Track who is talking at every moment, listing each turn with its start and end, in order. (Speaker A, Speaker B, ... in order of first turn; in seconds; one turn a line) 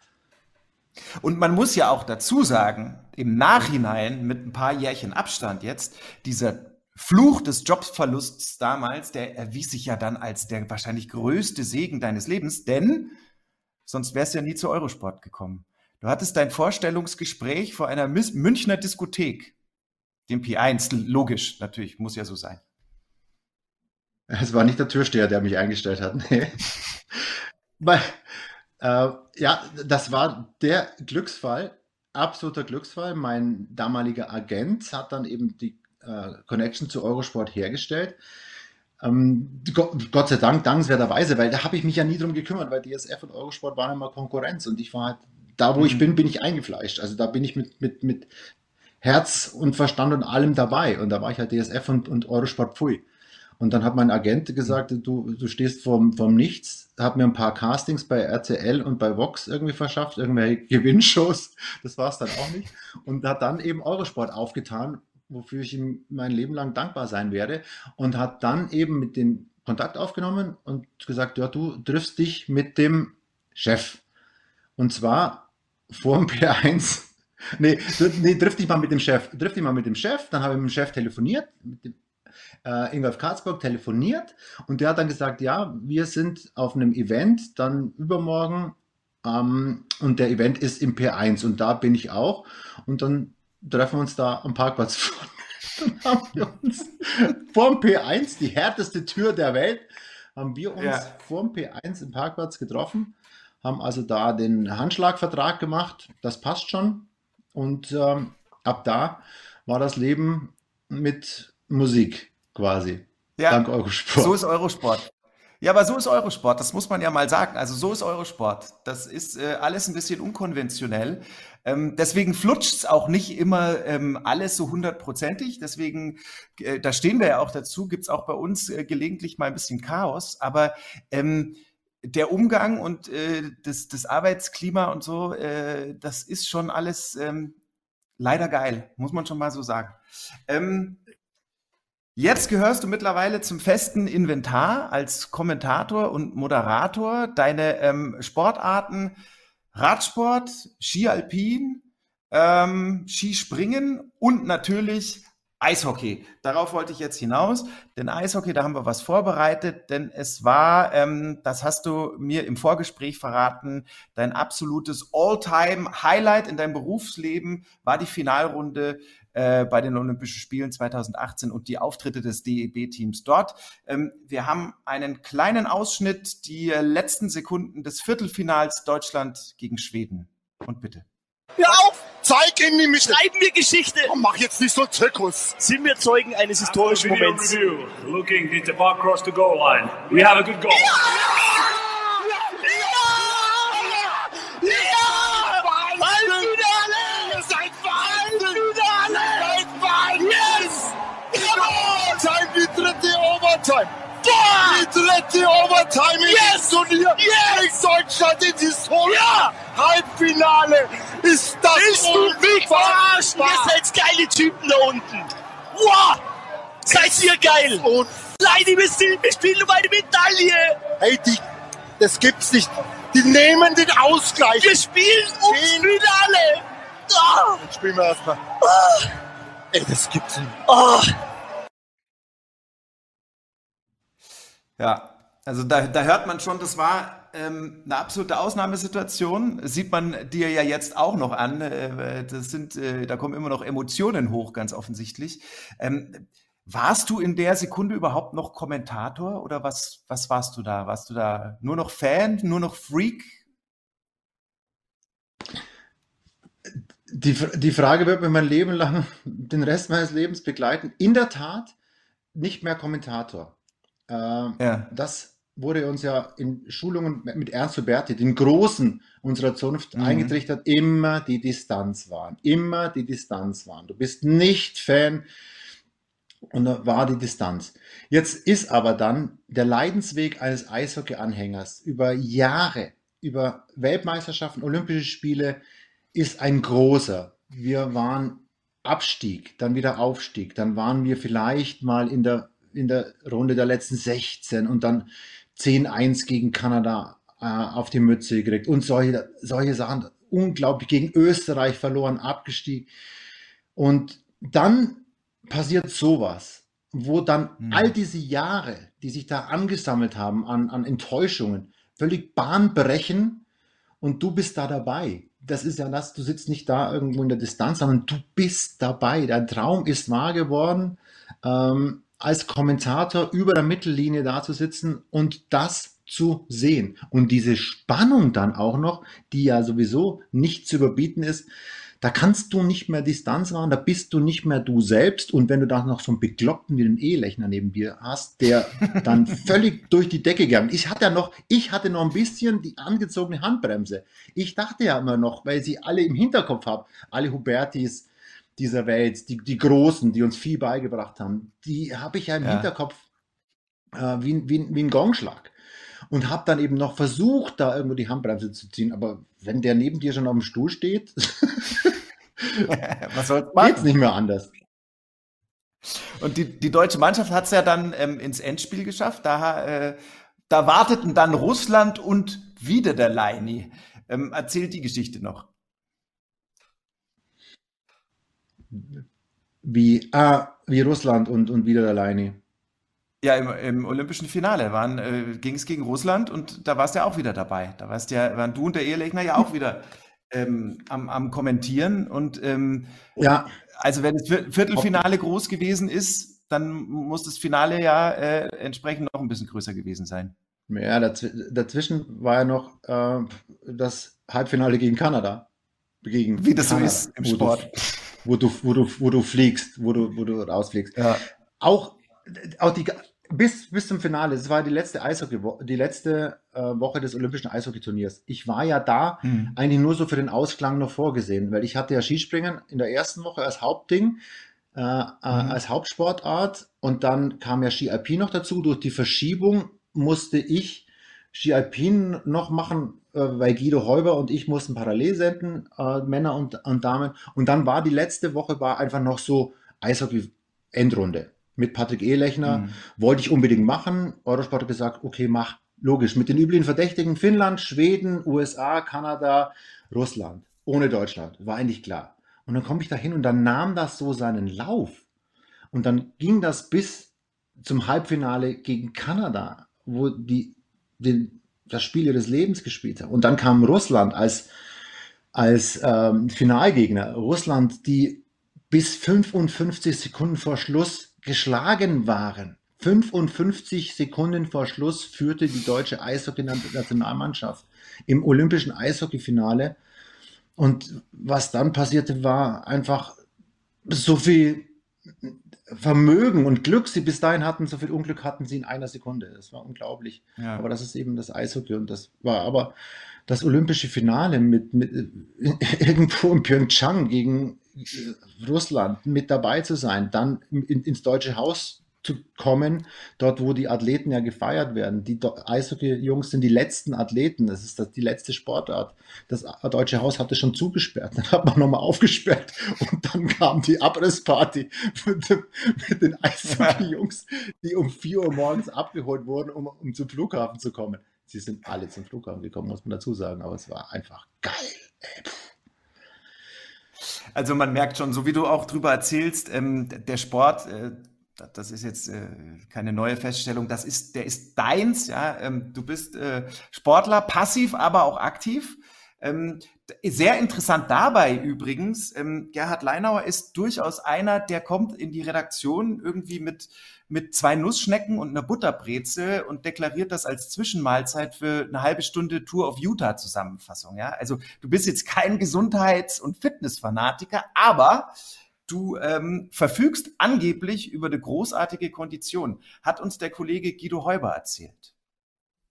Speaker A: 1.2-13.2
Speaker A: 13.8-19.5
Speaker A: 20.3-22.6
Speaker B: 24.3-26.6
Speaker B: 27.8-28.2
Speaker B: 28.8-38.2
Speaker B: 39.0-48.3
Speaker A: 45.8-46.0
Speaker B: 49.0-53.0
Speaker B: 53.6-74.0
Speaker B: 74.8-82.0
Speaker B: 82.6-114.4
Speaker A: 100.8-101.1
Speaker A: 113.4-115.1
Speaker A: 115.6-137.6
Speaker A: 138.2-141.0
Speaker A: 142.2-149.2
Speaker A: 149.7-181.1
Speaker C: 181.6-181.9
Speaker D: 181.6-183.2
Speaker C: 183.0-184.1
Speaker D: 184.0-185.6
Speaker C: 185.6-187.6
Speaker E: 186.6-190.9
Speaker C: 190.7-191.8
Speaker D: 191.0-191.8
Speaker C: 192.6-193.9
Speaker D: 192.6-194.1
Speaker D: 194.6-213.8
Speaker C: 194.6-202.2
Speaker C: 204.2-204.9
Speaker C: 206.2-207.8
Speaker C: 209.0-209.5
Speaker C: 211.7-216.2
Speaker C: 216.9-220.8
Speaker D: 216.9-218.2
Speaker B: 222.0-222.4
Speaker D: 222.2-224.8
Speaker C: 224.6-227.6
Speaker D: 225.5-225.9
Speaker D: 227.7-228.3
Speaker C: 228.6-229.1
Speaker C: 230.6-231.1
Speaker A: 234.8-253.4
Speaker B: 256.6-261.7
Speaker B: 262.3-263.6
Speaker B: 264.1-275.3
Speaker A: 264.6-264.9
Speaker A: 269.9-270.3
Speaker B: 276.5-285.6
Speaker B: 286.1-302.9
Speaker B: 303.7-313.4
Speaker A: 307.6-307.9
Speaker B: 314.0-331.5
Speaker B: 332.0-353.0
Speaker A: 352.4-352.7
Speaker B: 353.9-355.5
Speaker B: 356.1-362.7
Speaker A: 362.7-363.9
Speaker B: 363.5-364.5
Speaker A: 366.2-370.0
Speaker A: 370.5-375.5
Speaker B: 378.7-379.0
Speaker B: 379.6-382.4
Speaker A: 383.2-392.9
Speaker B: 393.2-393.5
Speaker A: 393.8-400.3
Speaker B: 394.7-395.0
Speaker B: 400.7-405.5
Speaker B: 406.0-407.7
Speaker A: 406.4-408.0
Speaker B: 408.2-411.0
Speaker A: 411.0-411.2
Speaker B: 411.6-424.2
Speaker A: 419.2-419.5
Speaker B: 424.7-455.0
Speaker A: 425.3-425.6
Speaker A: 442.4-442.8
Speaker B: 455.7-464.5
Speaker B: 465.3-479.8
Speaker B: 480.6-483.2
Speaker B: 483.9-492.7
Speaker A: 490.4-490.6
Speaker B: 493.3-525.5
Speaker A: 527.3-558.1
Speaker A: 558.7-564.9